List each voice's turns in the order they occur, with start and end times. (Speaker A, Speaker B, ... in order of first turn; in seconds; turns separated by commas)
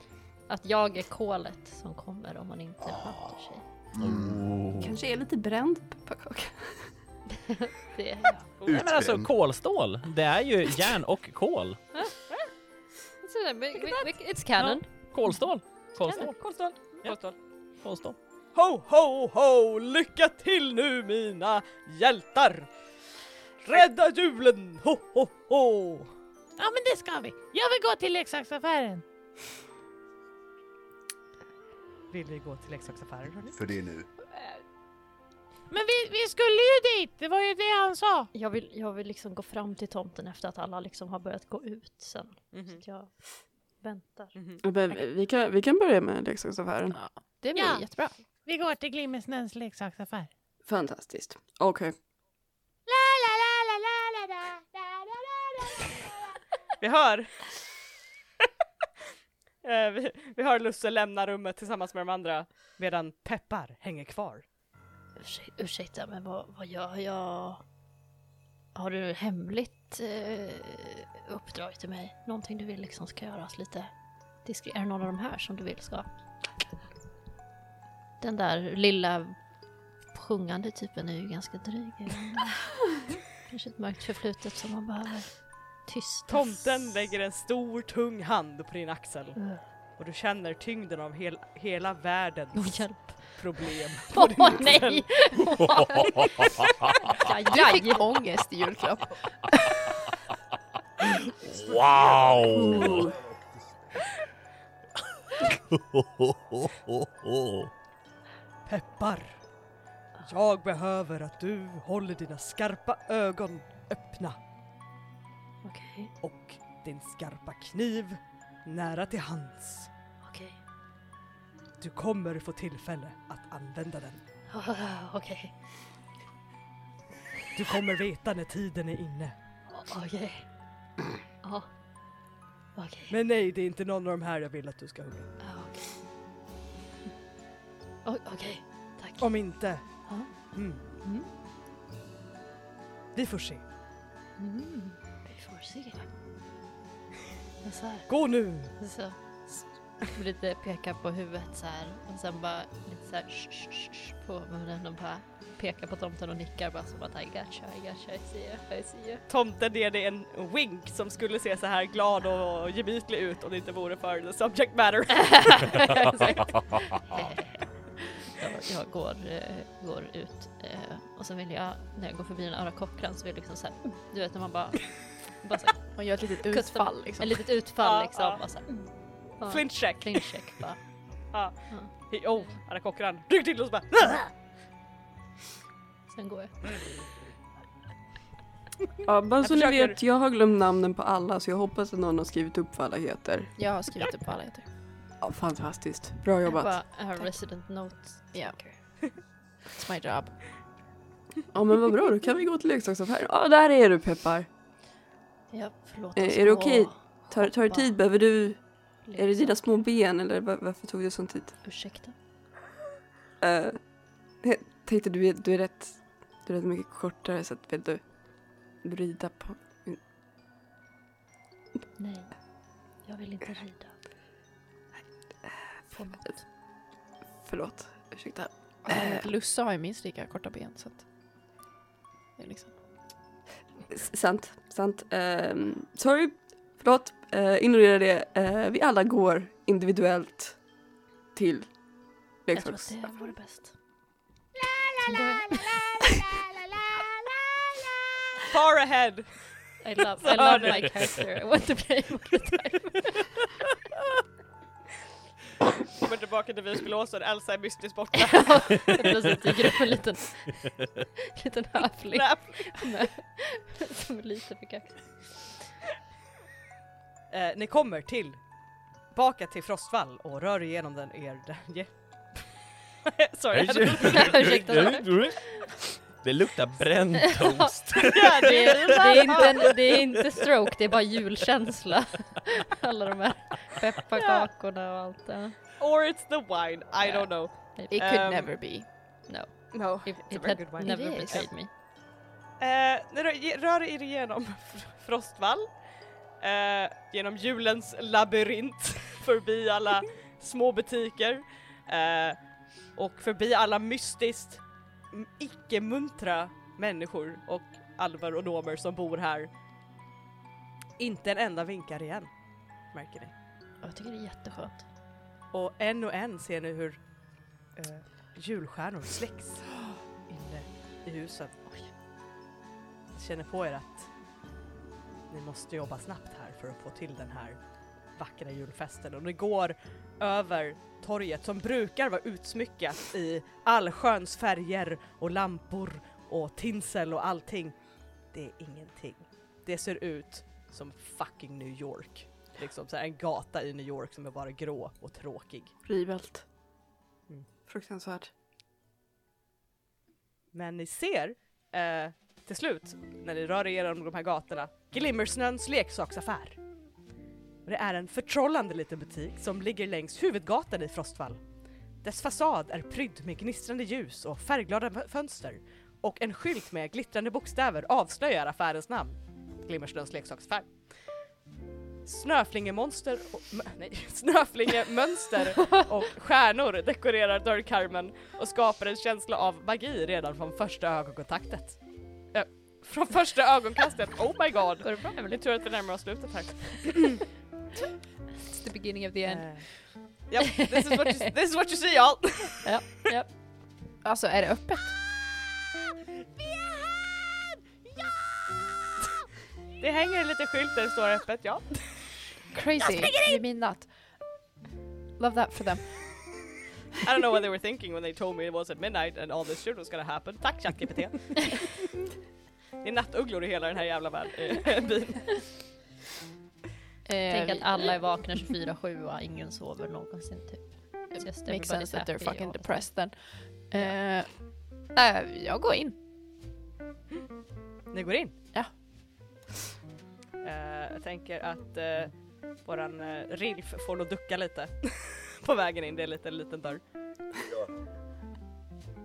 Speaker A: 0.5-3.6, Speaker B: 3.9-4.6, Speaker C: 4.0-5.0, Speaker D: 4.8-6.9, Speaker A: 7.3-8.5, Speaker B: 8.7-9.3, Speaker C: 8.7-11.8, Speaker A: 13.2-14.8, Speaker C: 14.6-16.4, Speaker E: 16.0-17.4, Speaker C: 17.8-18.2, Speaker E: 18.6-22.7, Speaker E: 23.6-26.1, Speaker F: 26.6-29.0, Speaker E: 32.1-33.5, Speaker B: 33.5-34.1, Speaker F: 35.7-38.3, Speaker A: 38.3-43.1, Speaker E: 42.5-42.8, Speaker A: 43.8-45.0, Speaker E: 44.4-44.6, Speaker D: 44.6-47.0, Speaker G: 46.9-48.1, Speaker F: 47.5-47.9, Speaker F: 48.5-50.3, Speaker D: 50.7-51.9, Speaker E: 56.8-57.5, Speaker E: 59.6-64.5, Speaker A: 65.2-67.6, Speaker A: 68.8-73.9, Speaker A: 74.5-76.1, Speaker A: 78.2-79.4, Speaker A: 80.1-82.7, Speaker A: 83.3-85.3, Speaker A: 85.9-86.8, Speaker E: 86.3-89.4, Speaker A: 89.4-89.6, Speaker E: 90.0-95.1, Speaker A: 92.5-93.4, Speaker A: 94.1-98.2, Speaker C: 95.8-96.9, Speaker G: 97.5-99.9, Speaker C: 101.3-103.1, Speaker B: 101.4-104.0, Speaker D: 102.5-103.2, Speaker C: 105.4-107.7, Speaker E: 108.7-109.4, Speaker E: 110.2-114.4, Speaker A: 115.6-116.1, Speaker E: 116.2-119.9, Speaker A: 120.2-120.6, Speaker E: 121.8-124.2, Speaker A: 124.5-125.5, Speaker E: 127.5-129.3, Speaker A: 129.7-130.4, Speaker A: 131.4-131.7, Speaker A: 132.8-133.2, Speaker E: 133.1-135.3, Speaker A: 135.4-135.9, Speaker A: 138.1-139.3, Speaker E: 139.2-139.8, Speaker E: 140.5-140.8, Speaker E: 143.2-143.6, Speaker A: 144.4-146.1, Speaker A: 147.6-148.1, Speaker E: 148.1-148.8, Speaker A: 148.8-159.2, Speaker E: 159.3-165.8, Speaker A: 165.1-175.9, Speaker G: 175.9-177.4, Speaker A: 176.4-178.9, Speaker E: 177.8-178.4, Speaker A: 179.4-180.8, Speaker E: 179.5-180.3, Speaker E: 181.3-184.3, Speaker A: 181.7-182.5, Speaker A: 186.1-186.8, Speaker D: 189.1-193.5, Speaker E: 189.4-190.0, Speaker G: 193.6-194.7, Speaker D: 195.2-196.8, Speaker A: 196.5-198.8, Speaker G: 199.7-200.4, Speaker D: 201.5-204.5, Speaker A: 205.5-208.0, Speaker D: 206.2-208.6, Speaker A: 209.1-209.6, Speaker D: 209.2-211.6, Speaker A: 211.6-212.1, Speaker D: 213.4-213.8, Speaker D: 214.4-218.0, Speaker D: 218.8-220.0, Speaker A: 222.0-222.3, Speaker A: 223.1-223.9, Speaker A: 225.9-226.4, Speaker D: 227.4-229.3, Speaker G: 228.9-231.0, Speaker G: 232.4-232.7, Speaker D: 233.9-240.6, Speaker D: 241.3-241.7, Speaker D: 242.5-243.1, Speaker A: 242.5-243.7, Speaker A: 245.0-246.2, Speaker E: 248.5-249.5, Speaker A: 249.8-253.3, Speaker E: 250.2-251.1, Speaker E: 255.9-259.1, Speaker A: 258.2-265.5, Speaker E: 262.1-262.9, Speaker E: 267.3-268.4, Speaker E: 269.1-272.4, Speaker E: 273.1-274.9, Speaker C: 273.5-275.6, Speaker A: 274.0-275.7, Speaker C: 276.2-280.4, Speaker A: 277.2-285.6, Speaker E: 278.0-279.8, Speaker E: 284.1-284.5, Speaker E: 285.8-288.5, Speaker A: 287.0-287.9, Speaker G: 287.9-288.9, Speaker A: 289.3-291.7, Speaker E: 289.7-291.5, Speaker G: 290.8-291.5, Speaker E: 292.6-295.7, Speaker E: 296.4-302.4, Speaker E: 303.0-309.5, Speaker E: 311.0-312.3, Speaker E: 312.9-313.3, Speaker A: 313.8-314.9, Speaker E: 315.5-317.0, Speaker E: 317.8-319.7, Speaker E: 320.3-321.5, Speaker E: 323.1-324.1, Speaker E: 325.3-327.6, Speaker E: 328.2-337.8, Speaker E: 338.3-345.7, Speaker D: 345.9-346.4, Speaker D: 347.7-348.3, Speaker E: 350.5-356.6, Speaker E: 357.7-361.4, Speaker E: 362.0-370.7, Speaker E: 372.1-381.8, Speaker E: 382.3-387.2, Speaker A: 384.8-385.4, Speaker G: 388.5-389.5, Speaker E: 389.3-389.6, Speaker E: 390.3-392.6, Speaker A: 390.4-390.9, Speaker A: 392.6-393.3, Speaker G: 394.0-394.9, Speaker E: 399.8-401.9, Speaker G: 402.5-403.9, Speaker G: 405.2-405.9, Speaker E: 407.0-411.7, Speaker E: 412.8-415.5, Speaker G: 417.1-417.9, Speaker A: 417.3-422.9, Speaker G: 421.1-423.1, Speaker G: 423.7-424.4, Speaker G: 424.9-426.0, Speaker E: 427.9-428.4, Speaker E: 430.4-432.1, Speaker E: 432.6-436.8, Speaker B: 437.4-437.7